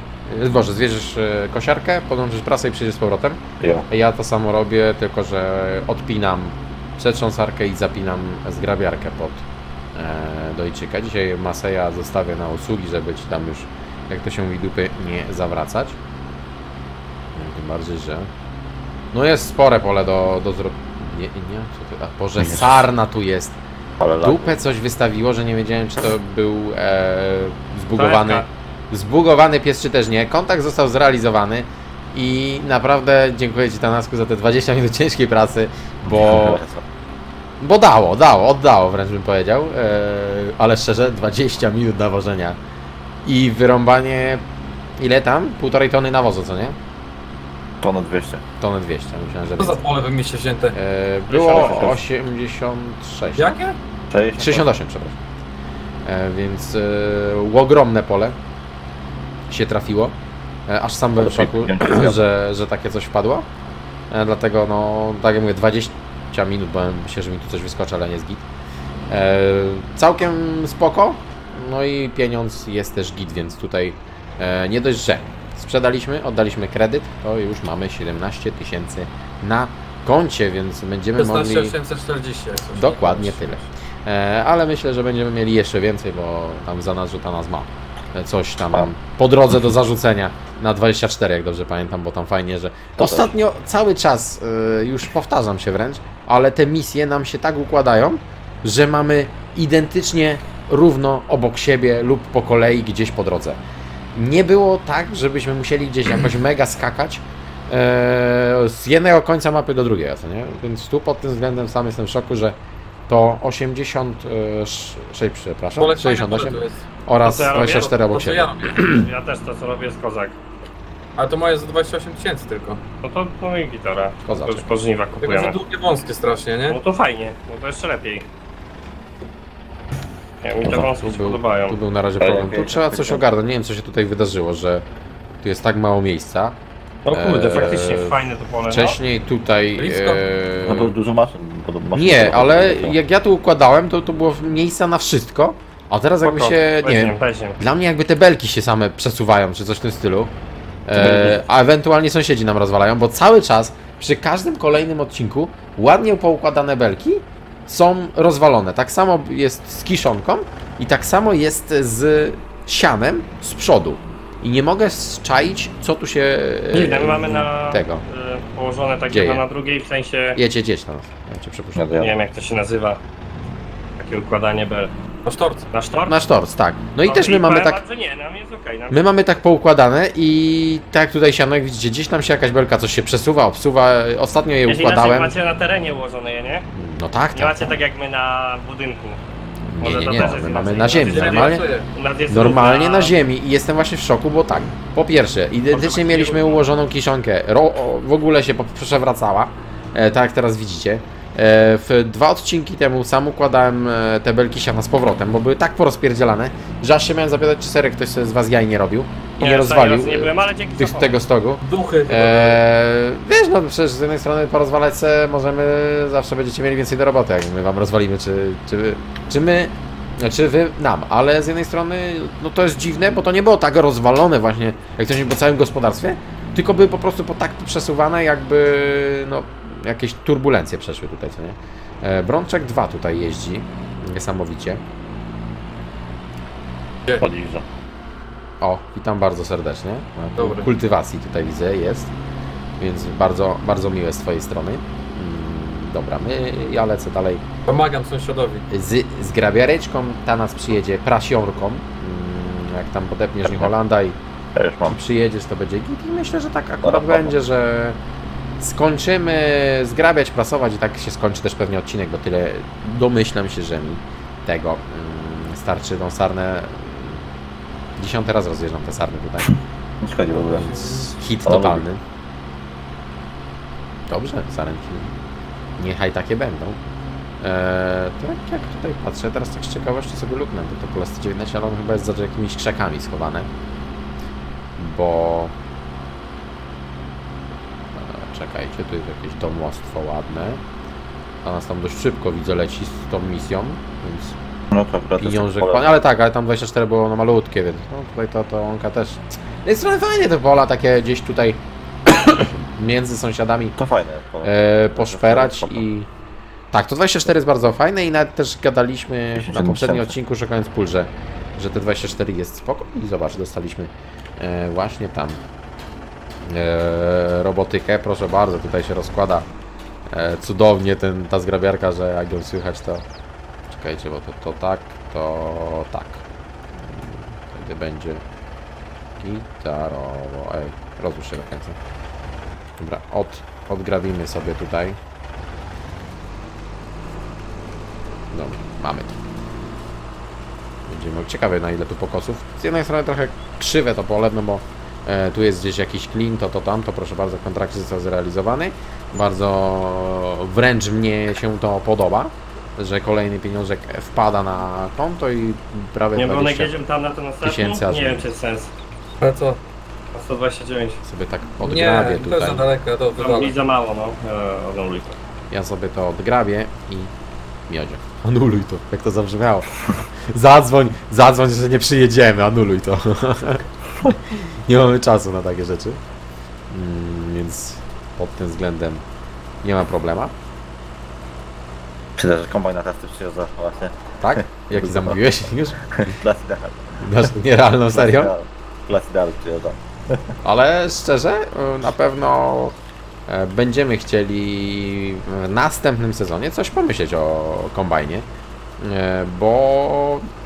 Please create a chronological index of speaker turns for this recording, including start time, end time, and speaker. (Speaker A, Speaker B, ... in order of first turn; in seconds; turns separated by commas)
Speaker A: 0.3-15.9, Speaker B: 3.6-3.9, Speaker A: 17.3-18.3, Speaker A: 19.1-23.6, Speaker B: 22.4-22.8, Speaker B: 24.0-24.6, Speaker A: 24.2-36.6, Speaker C: 28.0-28.5, Speaker B: 36.1-36.8, Speaker A: 37.6-42.6, Speaker A: 43.2-44.4, Speaker A: 45.0-46.8, Speaker B: 47.8-48.4, Speaker A: 48.6-49.8, Speaker D: 49.6-50.7, Speaker A: 50.7-53.7, Speaker C: 51.3-51.9, Speaker B: 51.5-52.0, Speaker D: 53.4-53.8, Speaker B: 54.1-54.7, Speaker A: 54.4-55.2, Speaker A: 56.0-58.4, Speaker A: 59.5-60.1, Speaker A: 60.7-63.5, Speaker B: 61.2-62.3, Speaker A: 64.1-68.4, Speaker A: 69.1-81.8, Speaker D: 81.2-83.4, Speaker A: 82.8-103.6, Speaker B: 93.0-93.3, Speaker A: 104.1-112.6, Speaker A: 113.1-119.1, Speaker D: 115.8-116.8, Speaker C: 117.2-117.9, Speaker D: 118.0-118.8, Speaker C: 118.8-120.4, Speaker D: 121.2-122.8, Speaker C: 123.0-125.6, Speaker A: 124.2-124.7, Speaker D: 125.2-126.8, Speaker C: 126.7-128.2, Speaker C: 130.4-131.8, Speaker A: 130.6-134.8, Speaker B: 132.2-133.2, Speaker A: 135.4-136.6, Speaker C: 137.1-139.0, Speaker A: 137.1-140.9, Speaker D: 139.8-140.2, Speaker B: 140.7-143.0, Speaker A: 141.9-150.3, Speaker C: 146.2-147.6, Speaker A: 150.9-168.0, Speaker B: 150.9-151.4, Speaker C: 166.7-170.4, Speaker A: 169.1-169.4, Speaker A: 170.3-172.0, Speaker B: 171.7-172.2, Speaker C: 171.9-173.0, Speaker C: 174.0-174.9, Speaker D: 175.2-175.7, Speaker C: 175.7-176.2, Speaker A: 176.1-177.8, Speaker C: 177.0-179.0, Speaker A: 178.9-185.3, Speaker C: 184.7-186.7, Speaker A: 186.7-187.8, Speaker C: 187.3-189.2, Speaker A: 189.7-191.6, Speaker C: 189.8-193.1, Speaker D: 190.9-191.9, Speaker A: 192.3-234.8, Speaker C: 195.7-196.6, Speaker C: 209.4-211.2, Speaker D: 211.6-212.6, Speaker B: 237.2-237.6, Speaker A: 238.6-242.1, Speaker D: 240.4-240.7, Speaker A: 242.8-247.4, Speaker D: 247.7-248.7, Speaker A: 248.7-254.2, Speaker B: 253.4-253.7, Speaker B: 254.5-255.0, Speaker A: 254.9-258.0, Speaker B: 256.8-257.3, Speaker A: 258.6-267.2, Speaker A: 268.0-269.5, Speaker B: 270.0-270.8, Speaker D: 270.3-271.1, Speaker A: 270.6-272.0, Speaker B: 271.4-271.8, Speaker A: 274.1-275.1, Speaker A: 275.8-276.8, Speaker A: 277.4-283.5, Speaker A: 284.8-285.5, Speaker A: 287.9-290.6, Speaker A: 291.4-294.4, Speaker B: 294.7-295.9, Speaker A: 295.2-301.6, Speaker A: 302.2-303.8, Speaker B: 303.8-305.8, Speaker A: 304.4-306.1, Speaker A: 306.7-315.4, Speaker B: 309.4-310.1, Speaker A: 316.4-319.4, Speaker A: 320.1-323.0, Speaker A: 323.7-326.2, Speaker A: 326.8-328.2, Speaker A: 329.2-331.8, Speaker A: 332.8-335.0, Speaker A: 338.3-339.2, Speaker A: 340.9-356.7, Speaker C: 356.1-358.7, Speaker A: 357.4-358.3, Speaker D: 359.2-359.6, Speaker C: 360.1-361.0, Speaker A: 361.0-362.7, Speaker D: 361.6-363.6, Speaker C: 363.1-365.1, Speaker A: 365.5-367.1, Speaker A: 367.7-369.7, Speaker A: 370.3-373.6, Speaker A: 374.3-376.0, Speaker A: 376.7-379.0, Speaker A: 379.6-380.3, Speaker B: 382.2-385.2, Speaker A: 384.2-385.8, Speaker B: 385.8-387.3, Speaker A: 387.0-388.3, Speaker B: 387.9-390.3, Speaker A: 390.4-392.8, Speaker A: 393.3-398.2, Speaker A: 398.8-400.3